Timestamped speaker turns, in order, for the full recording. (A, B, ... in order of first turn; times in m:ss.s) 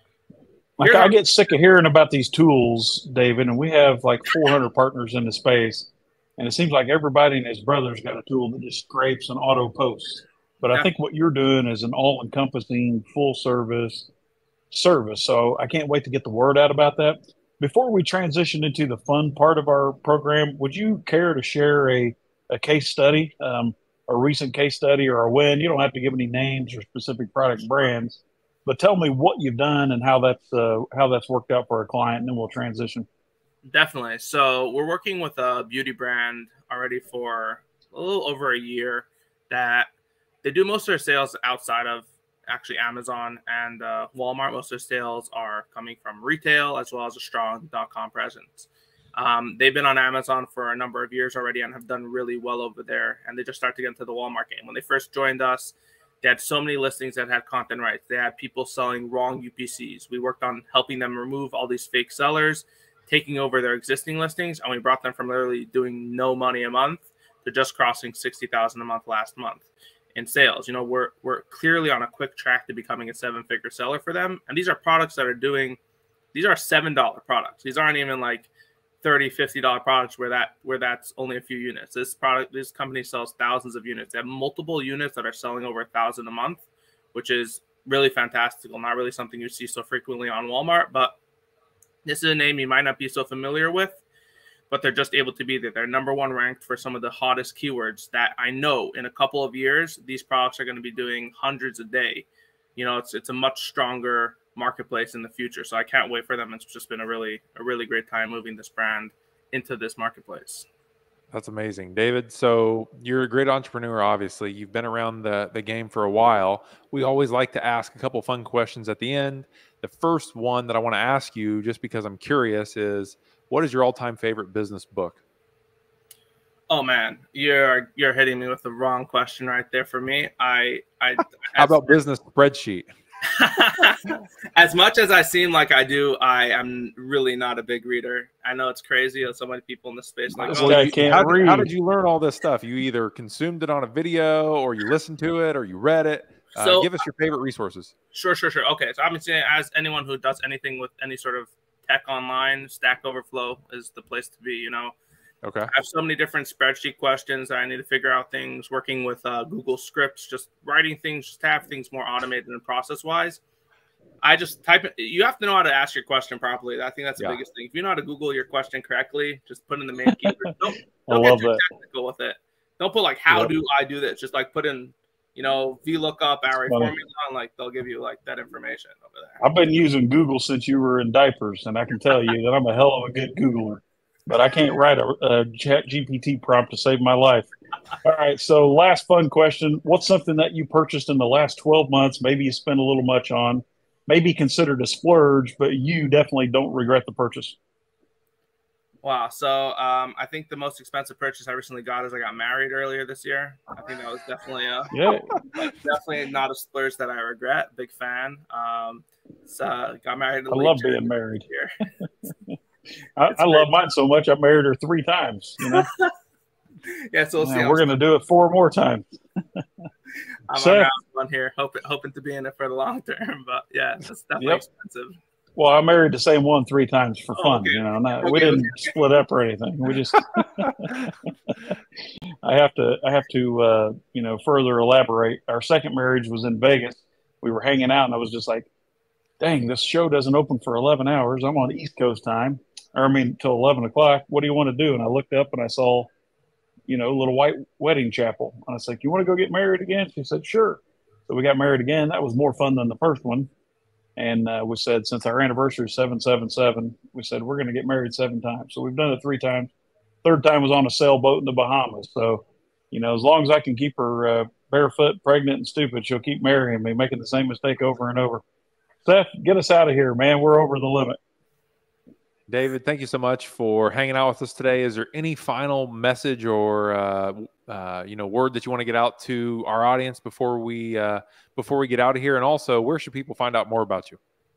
0:00.8-0:14.1 A
0:00.8-0:01.2 B
0:14.7-0:33.1 A
0:33.6-0:39.9 B
0:40.4-1:15.8 B
1:16.3-1:18.5 B
1:19.0-1:31.2 B
1:32.0-1:34.0 B
1:34.7-1:50.7 B
1:51.3-2:05.2 C
2:06.7-2:12.0 B
2:11.6-2:12.9 C
2:13.3-2:21.0 B
2:20.3-2:21.7 A
2:20.5-2:27.9 C
2:26.6-2:26.9 B
2:28.1-2:35.0 B
2:35.4-2:35.7 C
2:35.7-2:43.4 B
2:44.2-2:59.4 B
2:51.0-2:51.6 A
2:56.7-2:56.9 A
2:59.4-3:07.5 A
3:08.0-3:17.6 A
3:19.0-3:25.0 B
3:24.9-3:25.3 A
3:25.5-3:31.7 B
3:30.5-3:31.4 A
3:33.2-3:35.9 A
3:33.3-3:33.8 B
3:35.6-3:36.1 B
3:36.9-3:38.0 B
3:37.4-3:39.0 A
3:40.5-3:45.2 B
3:40.5-3:40.9 A
3:44.4-3:44.6 A
3:45.6-3:51.5 A
3:47.4-3:49.0 B
3:52.4-3:58.7 A
3:59.4-4:06.1 A
4:06.9-4:13.5 A
4:14.2-4:19.7 A
4:20.2-4:28.4 A
4:29.0-4:31.2 A
4:32.5-4:44.2 C